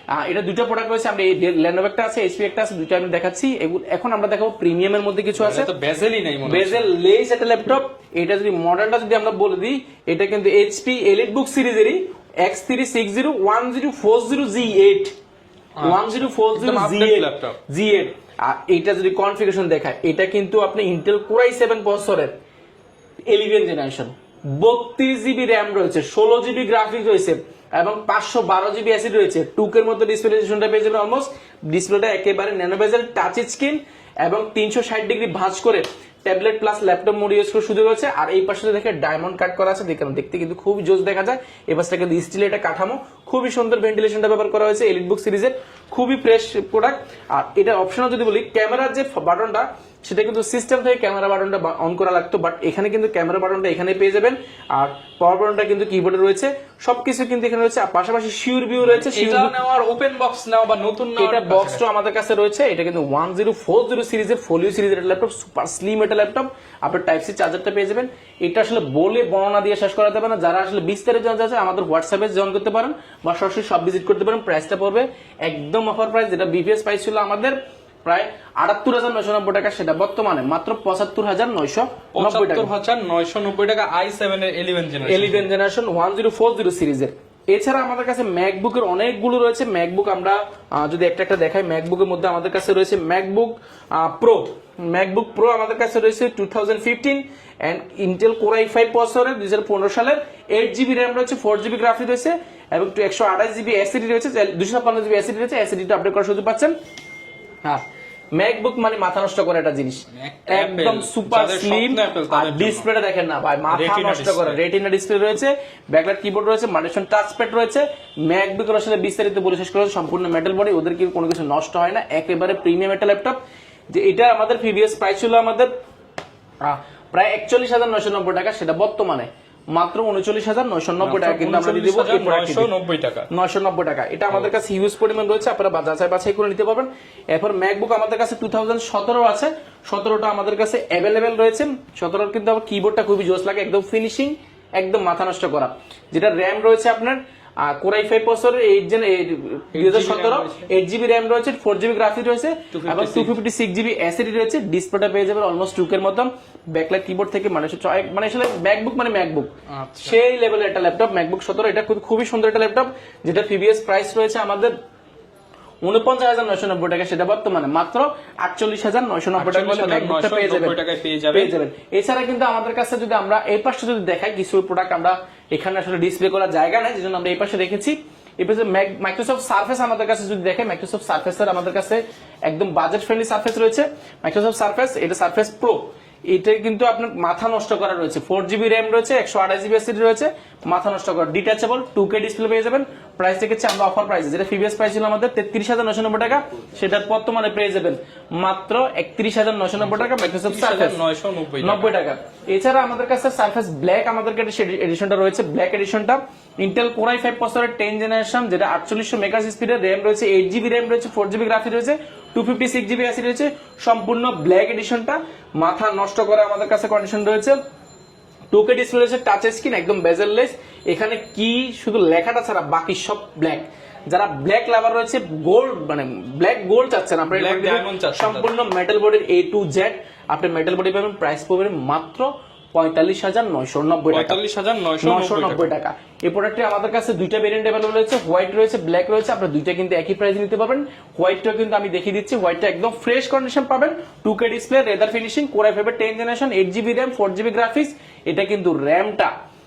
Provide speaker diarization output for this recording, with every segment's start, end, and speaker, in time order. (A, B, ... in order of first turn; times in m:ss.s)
0:00.1-0:05.7 A
0:05.4-0:06.9 B
0:06.4-0:15.1 A
0:15.8-0:17.6 B
0:15.8-0:22.3 A
0:23.3-0:59.5 A
0:58.8-1:01.8 B
1:01.2-1:22.7 A
1:22.1-1:25.5 B
1:25.0-1:46.7 A
1:48.3-2:03.4 A
1:50.1-1:52.9 B
1:53.7-1:54.6 B
2:03.9-2:05.7 A
2:06.6-2:12.7 A
2:11.0-2:13.3 B
2:13.3-2:39.5 A
2:29.7-2:30.7 B
2:32.7-2:33.3 B
2:39.7-2:40.2 B
2:40.0-2:44.7 A
2:45.8-2:50.8 A
2:49.4-2:51.5 B
2:51.3-3:21.0 A
3:19.8-3:21.9 B
3:21.6-3:37.6 A
3:38.5-3:54.4 A
3:47.3-3:48.5 B
3:54.1-3:55.7 B
3:55.0-4:09.3 A